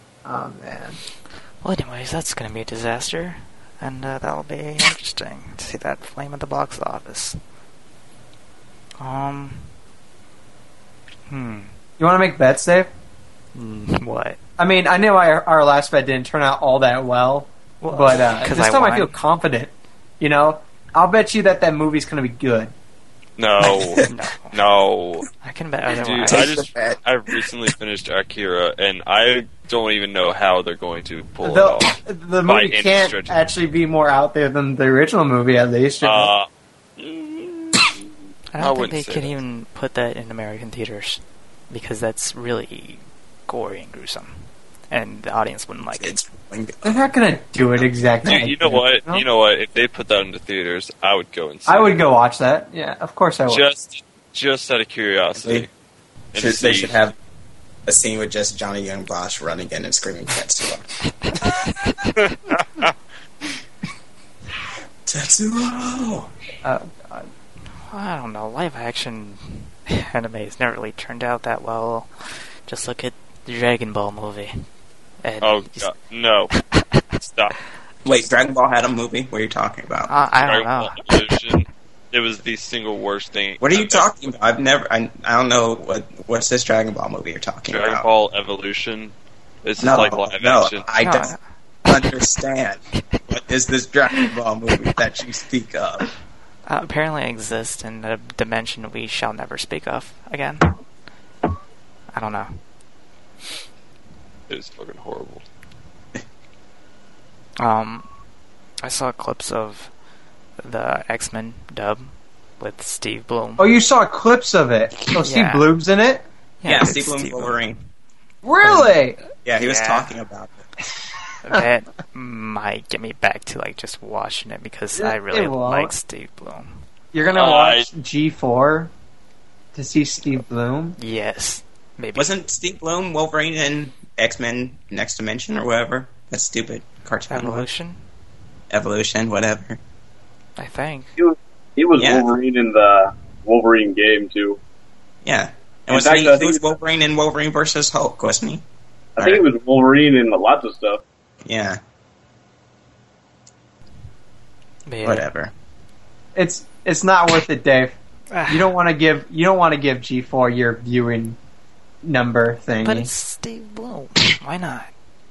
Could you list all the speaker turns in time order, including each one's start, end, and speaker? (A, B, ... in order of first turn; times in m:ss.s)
0:00.2-0:01.0 A
0:01.6-0:07.4 B
0:09.0-0:09.7 B
0:11.3-0:11.7 B
0:12.0-0:12.9 A
0:13.5-0:14.4 B
0:14.6-0:22.7 A
0:17.8-0:19.2 B
0:23.4-0:25.3 C
0:23.6-0:24.1 D
0:24.1-0:24.6 B
0:25.4-0:26.6 B
0:25.9-0:33.4 C
0:26.2-0:27.4 D
0:31.4-0:36.3 A
0:36.0-0:38.0 C
0:38.5-0:46.2 B
0:38.6-0:39.4 C
0:45.9-0:47.0 D
0:46.8-0:49.2 A
0:48.2-0:52.0 C
0:51.6-0:53.6 A
0:53.5-0:55.7 C
0:55.3-0:55.7 D
0:56.3-0:57.0 C
0:56.3-0:57.2 D
0:57.8-1:01.6 D
1:02.2-1:02.9 C
1:05.0-1:06.3 D
1:06.6-1:07.3 A
1:07.9-1:12.1 B
1:12.7-1:14.6 B
1:15.2-1:15.9 B
1:15.4-1:16.5 C
1:17.2-1:17.5 C
1:18.0-1:20.1 D
1:20.1-1:21.0 B
1:20.4-1:24.2 C
1:23.6-1:28.1 D
1:27.7-1:30.9 C
1:29.8-1:31.3 D
1:31.0-1:31.4 B
1:31.8-1:36.1 D
1:36.7-1:40.7 B
1:42.1-1:42.6 B
1:44.5-1:45.4 C
1:47.6-1:48.1 B
1:48.8-1:49.9 B
1:50.6-1:53.6 B
1:53.6-1:56.2 A
1:55.1-1:55.7 B
1:56.6-1:57.6 B
1:56.6-1:57.8 D
1:58.4-1:59.2 A
1:58.6-1:59.0 B
1:59.4-2:00.6 D
1:59.6-2:00.1 B
2:01.4-2:06.7 B
2:04.9-2:05.9 A
2:07.1-2:08.9 A
2:07.2-2:07.9 C
2:09.7-2:11.0 A
2:11.0-2:12.3 B
2:12.1-2:17.7 D
2:17.3-2:18.0 B
2:18.7-2:19.8 D
2:20.6-2:21.1 B
2:21.2-2:24.6 E
2:22.0-2:22.3 D
2:25.2-2:28.6 D
2:25.9-2:26.6 E
2:29.2-2:31.0 E
2:29.2-2:29.4 D
2:31.4-2:31.8 D
2:34.8-2:35.2 B
2:35.0-2:35.5 D
2:36.3-2:38.0 A
2:38.3-2:38.7 B
2:38.5-2:41.4 A
2:42.0-2:43.1 A
2:42.8-2:44.9 B